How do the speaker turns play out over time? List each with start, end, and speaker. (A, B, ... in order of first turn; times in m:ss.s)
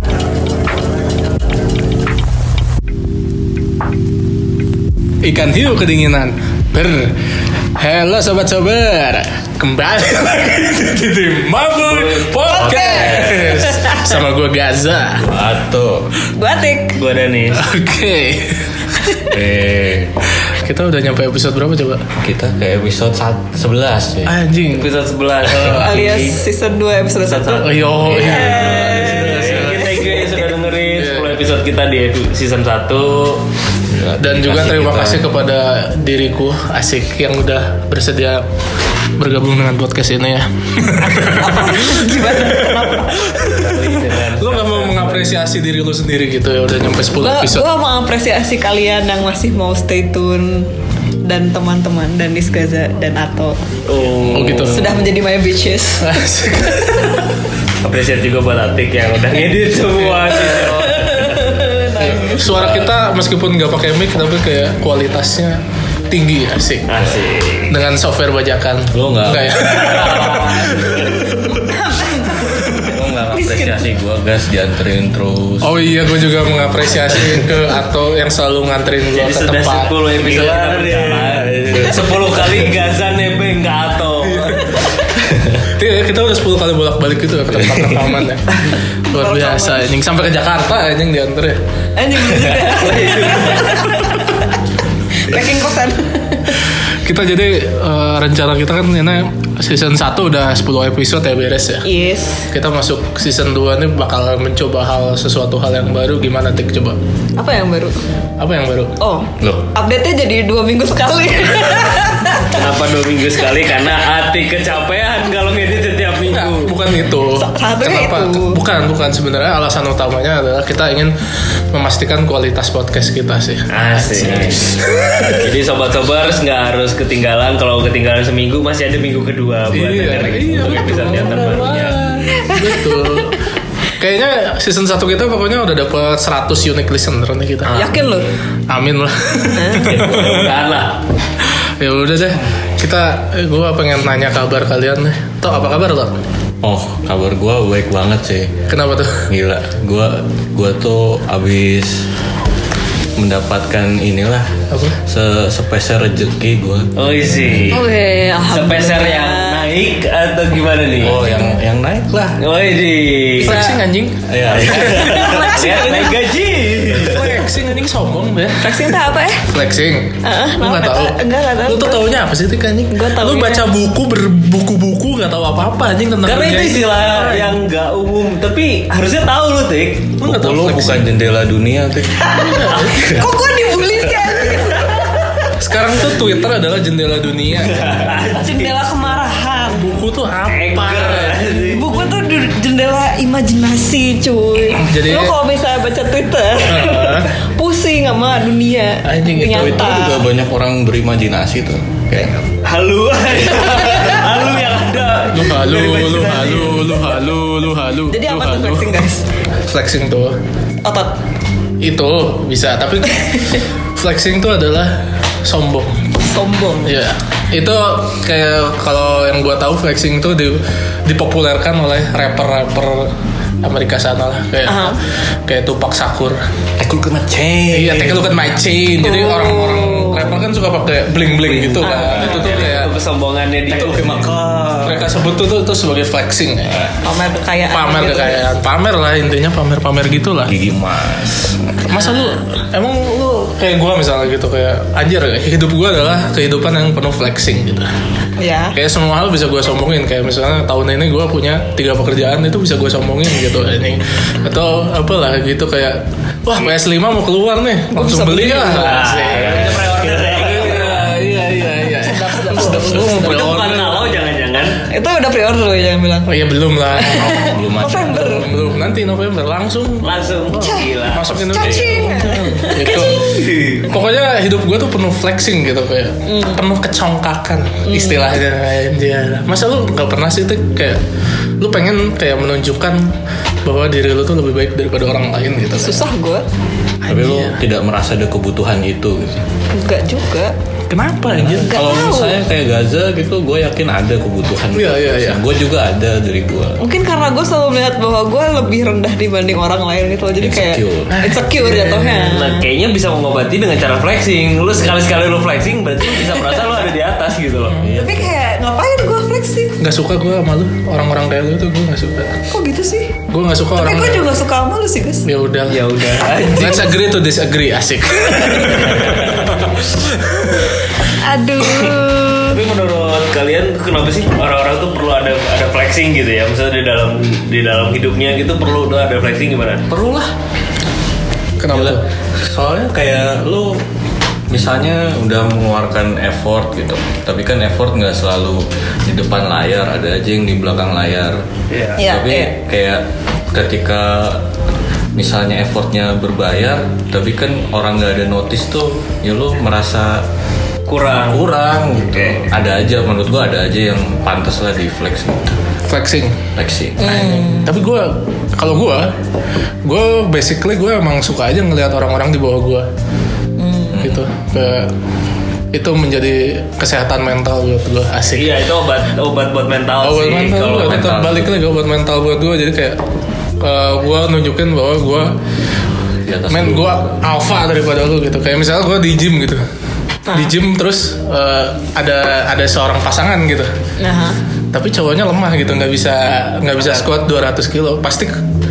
0:05.2-0:07.1 A
0:07.8-0:15.3 A
0:11.8-0:12.3 B
0:12.4-0:14.2 C
0:12.6-0:13.4 D
0:15.2-0:16.1 D
0:16.3-0:17.0 C
0:16.9-0:17.6 B
0:17.5-0:19.0 A
0:19.2-0:20.2 D
0:20.5-0:22.0 A
0:22.2-0:24.3 D
0:24.2-0:24.9 A
0:24.7-0:26.4 B
0:25.6-0:25.9 A
0:25.8-0:29.7 C
0:27.2-0:33.4 B
0:27.6-0:30.2 A
0:31.0-0:31.4 A
0:33.9-0:35.3 D
0:34.2-0:38.4 A
0:39.2-0:47.7 A
0:41.0-0:43.4 C
0:43.3-0:45.3 B
0:47.2-0:50.7 C
0:51.2-0:53.6 C
0:53.9-0:54.8 B
0:54.2-0:55.0 A
0:54.7-0:56.2 C
0:56.0-0:57.3 A
0:57.8-1:01.3 B
1:00.0-1:00.6 A
1:00.5-1:02.4 C
1:02.0-1:07.0 A
1:02.4-1:02.9 D
1:06.9-1:07.7 B
1:07.7-1:11.6 A
1:08.9-1:09.7 D
1:09.7-1:11.2 B
1:11.5-1:12.8 C
1:12.7-1:15.8 D
1:13.3-1:13.8 C
1:15.6-1:20.6 A
1:19.1-1:24.8 B
1:20.2-1:22.7 D
1:24.2-1:24.9 A
1:25.7-1:31.6 A
1:29.1-1:29.9 C
1:32.0-1:34.5 C
1:32.6-1:34.0 B
1:35.1-1:36.6 C
1:37.0-1:41.8 A
1:41.8-1:42.5 C
1:42.5-1:47.0 A
1:47.4-1:48.0 C
1:48.4-1:49.0 A
1:49.0-1:52.6 C
1:49.4-1:49.7 D
1:52.5-1:56.8 B
1:56.3-2:01.1 A
1:57.4-1:58.6 C
2:01.7-2:03.7 A
2:03.7-2:04.6 B
2:04.1-2:04.9 D
2:04.2-2:05.4 A
2:05.3-2:12.0 B
2:09.7-2:13.5 A
2:12.3-2:12.8 C
2:14.0-2:17.9 A
2:17.7-2:18.3 C
2:18.7-2:20.5 A
2:19.6-2:19.9 C
2:19.8-2:21.0 B
2:21.8-2:26.2 A
2:26.6-2:28.5 D
2:28.7-2:29.3 A
2:29.3-2:32.1 D
2:33.2-2:37.7 D
2:34.7-2:35.0 A
2:37.0-2:37.8 B
2:37.7-2:39.7 C
2:38.5-2:41.2 B
2:41.0-2:42.4 D
2:42.4-2:43.7 B
2:43.4-2:46.2 A
2:43.4-2:43.8 C
2:44.3-2:45.4 D
2:44.5-2:47.4 B
2:45.2-2:46.0 C
2:47.0-2:57.5 A
2:48.6-2:49.4 C
2:50.2-2:52.1 C
2:52.9-2:53.7 C
2:56.2-3:00.2 B
3:00.2-3:01.0 A
3:00.2-3:02.3 D
3:02.2-3:03.3 A
3:02.2-3:05.5 C
3:05.6-3:08.0 A
3:07.7-3:08.7 B
3:08.3-3:09.9 C
3:09.7-3:11.5 A
3:10.4-3:12.0 B
3:11.6-3:20.2 C
3:14.8-3:15.4 A
3:16.6-3:17.3 A
3:19.0-3:19.8 A
3:19.5-3:22.3 D
3:22.6-3:27.0 B
3:25.3-3:29.0 A
3:28.1-3:29.2 C
3:29.7-3:30.4 A
3:30.8-3:31.1 C
3:31.8-3:36.0 A
3:36.2-3:36.9 C
3:36.8-3:43.1 A
3:43.6-3:46.4 A
3:44.6-3:45.0 C
3:46.8-3:48.5 D
3:47.7-3:52.9 A
3:49.0-3:50.3 C
3:51.4-3:54.3 B
3:51.8-3:52.5 C
3:53.7-3:55.2 D
3:54.0-3:54.2 A
3:54.8-3:56.8 A
3:56.7-3:56.9 D
3:57.0-3:58.4 C
3:57.7-4:00.5 A
4:00.5-4:01.8 D
4:01.9-4:07.9 A
4:01.9-4:02.4 C
4:08.4-4:08.7 C
4:08.7-4:24.1 A
4:17.9-4:19.2 C
4:18.6-4:21.1 B
4:21.9-4:23.2 C
4:22.7-4:24.8 B
4:24.9-4:26.3 C
4:26.3-4:41.0 A
4:27.0-4:28.5 C
4:27.5-4:28.4 D
4:30.0-4:31.4 B
4:30.5-4:33.5 C
4:31.6-4:32.0 D
4:32.9-4:33.9 B
4:36.2-4:36.6 C
4:37.8-4:38.2 C
4:41.6-4:43.1 A
4:43.6-4:46.0 A
4:45.8-4:46.4 C
4:47.0-4:47.6 A
4:47.1-4:49.4 D
4:49.7-4:50.5 C
4:50.9-4:51.8 A
4:51.3-4:56.8 D
4:51.6-4:52.4 C
4:54.7-4:55.4 A
4:56.8-5:02.6 C
5:00.4-5:01.2 D
5:01.1-5:02.2 A
5:02.2-5:07.8 B
5:07.8-5:08.3 D
5:07.9-5:09.8 C
5:09.8-5:12.4 A
5:12.5-5:13.1 C
5:13.3-5:14.3 A
5:13.7-5:15.3 C
5:15.2-5:20.8 A
5:15.7-5:17.0 B
5:21.1-5:22.6 C
5:22.5-5:29.9 B
5:29.9-5:30.3 D
5:31.6-5:32.0 A
5:31.7-5:33.8 D
5:34.5-5:41.4 D
5:41.7-5:42.0 B
5:42.0-5:42.5 C
5:42.0-5:44.4 D
5:45.1-5:50.2 D
5:50.9-5:51.4 B
5:51.3-5:55.6 D
5:55.8-5:56.4 A
5:56.6-5:57.3 D
5:57.0-5:57.7 C
5:57.0-5:59.1 A
5:59.8-6:02.9 A
6:03.6-6:03.9 C
6:03.9-6:04.2 D
6:03.9-6:04.9 A
6:05.7-6:08.6 A
6:08.3-6:11.2 B
6:10.0-6:13.0 A
6:10.8-6:11.5 D
6:13.6-6:15.3 A
6:16.2-6:17.1 D
6:16.5-6:19.6 A
6:20.3-6:23.7 A
6:24.0-6:24.4 C
6:24.7-6:28.4 A